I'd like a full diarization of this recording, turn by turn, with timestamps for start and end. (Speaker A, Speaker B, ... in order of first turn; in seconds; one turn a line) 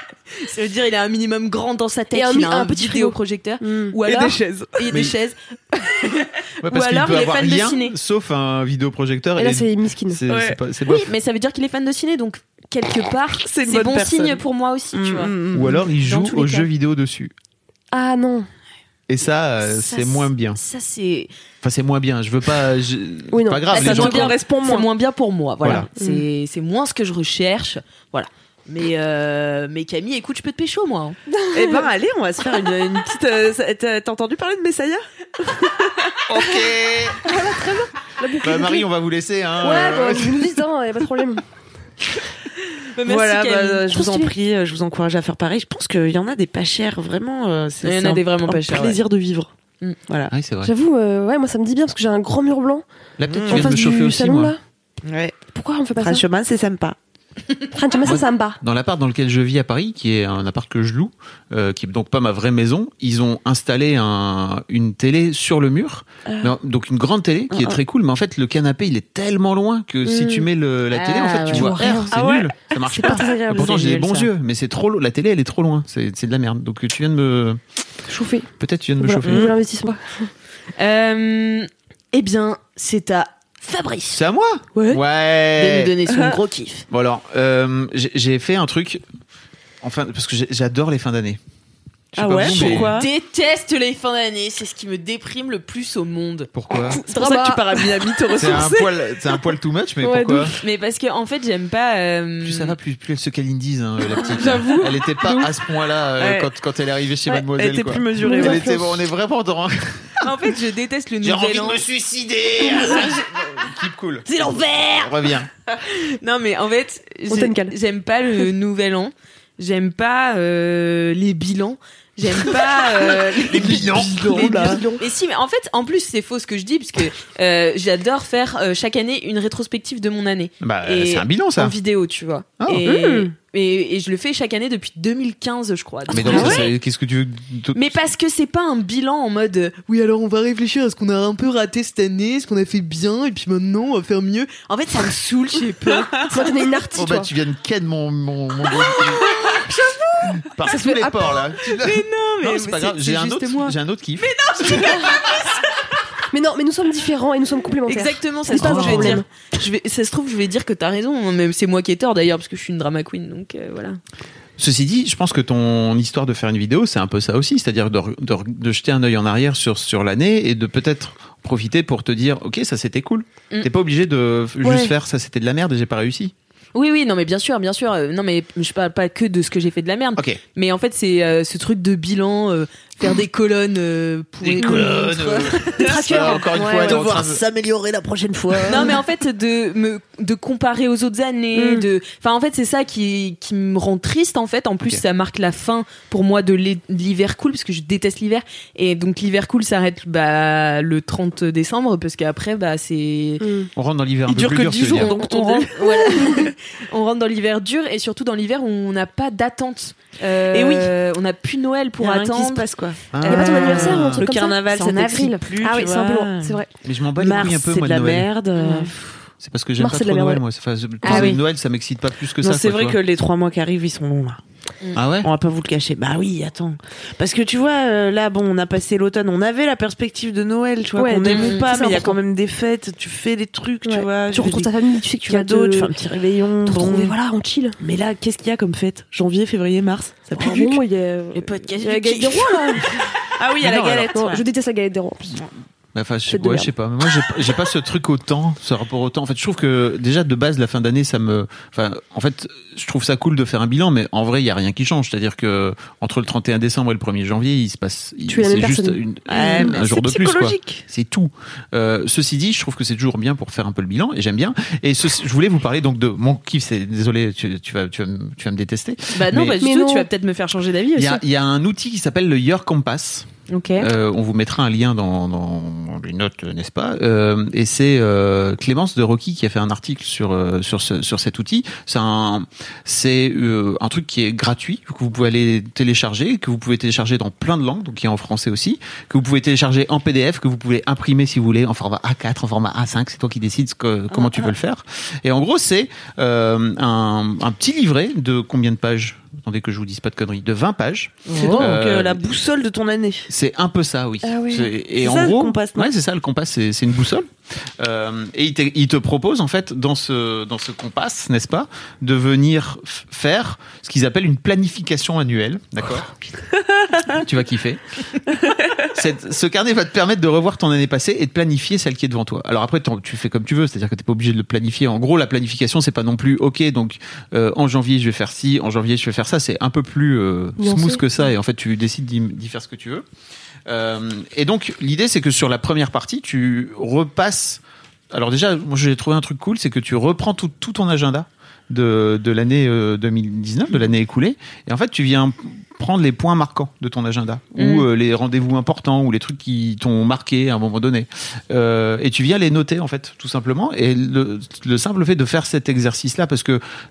Speaker A: 0.4-5.3
Speaker B: 2.1-4.0
Speaker C: 4.0-5.0
Speaker A: 6.0-8.0
Speaker D: 6.6-11.1
Speaker B: 9.4-10.2
Speaker C: 10.3-10.6
Speaker A: 10.8-15.3
Speaker C: 13.4-15.8
Speaker D: 15.5-17.3
Speaker A: 16.0-16.7
Speaker B: 17.9-18.5
Speaker D: 19.1-20.6
Speaker A: 19.6-21.3
Speaker D: 21.6-24.4
Speaker B: 23.3-23.7
Speaker A: 23.7-31.2
Speaker C: 23.7-24.9
Speaker B: 25.9-26.2
Speaker B: 31.3-31.9
Speaker C: 31.5-36.2
Speaker D: 36.3-37.2
Speaker B: 37.2-38.9
Speaker D: 38.4-40.5
Speaker B: 39.6-41.4
Speaker A: 42.9-43.9
Speaker C: 43.0-49.5
Speaker B: 43.9-44.3
Speaker A: 47.8-49.0
Speaker C: 50.1-50.3
Speaker D: 50.3-50.7
Speaker B: 50.6-52.8
Speaker D: 53.2-54.5
Speaker C: 53.3-53.9
Speaker B: 53.4-54.6
Speaker C: 55.0-55.4
Speaker B: 55.5-56.2
Speaker C: 56.0-57.0
Speaker B: 57.7-58.6
Speaker D: 58.0-77.6
Speaker C: 67.5-67.8
Speaker B: 70.0-70.5
Speaker A: 70.9-71.8
Speaker B: 71.5-72.1
Speaker C: 71.6-74.3
Speaker B: 73.0-73.4
Speaker B: 78.1-78.5
Speaker D: 78.6-79.5
Speaker B: 79.0-80.3
Speaker C: 79.2-79.5
Speaker A: 80.8-84.2
Speaker D: 84.1-85.9
Speaker A: 85.6-86.8
Speaker C: 86.1-86.4
Speaker D: 86.9-89.0
Speaker D: 89.8-91.4
Speaker D: 92.1-93.0
Speaker C: 92.1-93.1
Speaker A: 92.4-96.5
Speaker D: 96.5-97.0
Speaker B: 96.9-98.0
Speaker C: 97.1-98.9
Speaker A: 97.1-97.4
Speaker D: 98.4-100.5
Speaker B: 100.0-100.5
Speaker A: 100.6-102.7
Speaker D: 102.4-110.3
Speaker B: 104.3-104.8
Speaker A: 104.4-104.8
Speaker C: 106.2-106.5
Speaker C: 107.2-108.8
Speaker B: 108.2-108.9
Speaker A: 110.2-111.8
Speaker D: 111.2-115.5
Speaker A: 112.8-113.0
Speaker A: 114.3-115.1
Speaker A: 115.8-136.7
Speaker B: 117.3-117.7
Speaker D: 123.5-124.8
Speaker C: 123.5-124.9
Speaker D: 130.6-131.7
Speaker B: 132.8-133.3
Speaker D: 136.1-138.0
Speaker C: 136.2-136.7
Speaker A: 137.7-146.8
Speaker B: 146.3-147.3
Speaker D: 146.9-149.3
Speaker D: 150.4-155.1
Speaker B: 150.7-151.3
Speaker A: 151.7-155.6
Speaker B: 156.3-159.2
Speaker A: 157.9-164.0
Speaker D: 158.5-159.2
Speaker D: 164.6-176.3
Speaker B: 174.6-174.9
Speaker A: 176.7-186.4
Speaker D: 184.4-187.4
Speaker C: 185.8-189.0
Speaker B: 185.8-187.1
Speaker A: 188.7-203.4
Speaker B: 191.6-191.8
Speaker B: 203.4-203.7
Speaker D: 203.8-205.1
Speaker C: 204.3-206.5
Speaker A: 204.9-212.7
Speaker C: 210.5-210.9
Speaker C: 212.0-216.6
Speaker D: 213.1-214.2
Speaker B: 213.2-216.7
Speaker A: 213.4-213.7
Speaker A: 214.6-215.4
Speaker D: 216.8-218.3
Speaker C: 217.2-219.0
Speaker A: 218.6-218.9
Speaker D: 219.4-223.0
Speaker B: 219.8-220.4
Speaker A: 221.0-221.4
Speaker C: 222.4-224.4
Speaker D: 224.9-225.3
Speaker C: 225.2-234.7
Speaker B: 230.9-232.2
Speaker A: 231.3-231.7
Speaker B: 233.8-236.0
Speaker C: 235.2-237.2
Speaker B: 236.6-237.8
Speaker C: 237.8-240.8
Speaker B: 240.3-243.0
Speaker A: 241.3-242.9
Speaker C: 243.3-244.4
Speaker D: 243.6-244.2
Speaker B: 244.1-245.4
Speaker D: 245.9-269.6
Speaker B: 246.3-246.7
Speaker B: 258.3-259.8
Speaker C: 259.3-260.8
Speaker A: 269.1-271.2
Speaker B: 269.6-270.1
Speaker D: 270.9-302.3
Speaker A: 273.5-273.9
Speaker A: 301.3-301.6
Speaker C: 301.3-303.3
Speaker B: 301.4-301.7
Speaker D: 303.3-307.3
Speaker B: 304.2-304.7
Speaker C: 305.0-305.9
Speaker D: 307.8-316.1
Speaker C: 316.8-317.2
Speaker D: 317.1-317.8
Speaker D: 318.9-333.0
Speaker B: 330.6-331.0
Speaker D: 333.7-356.6
Speaker A: 347.6-347.9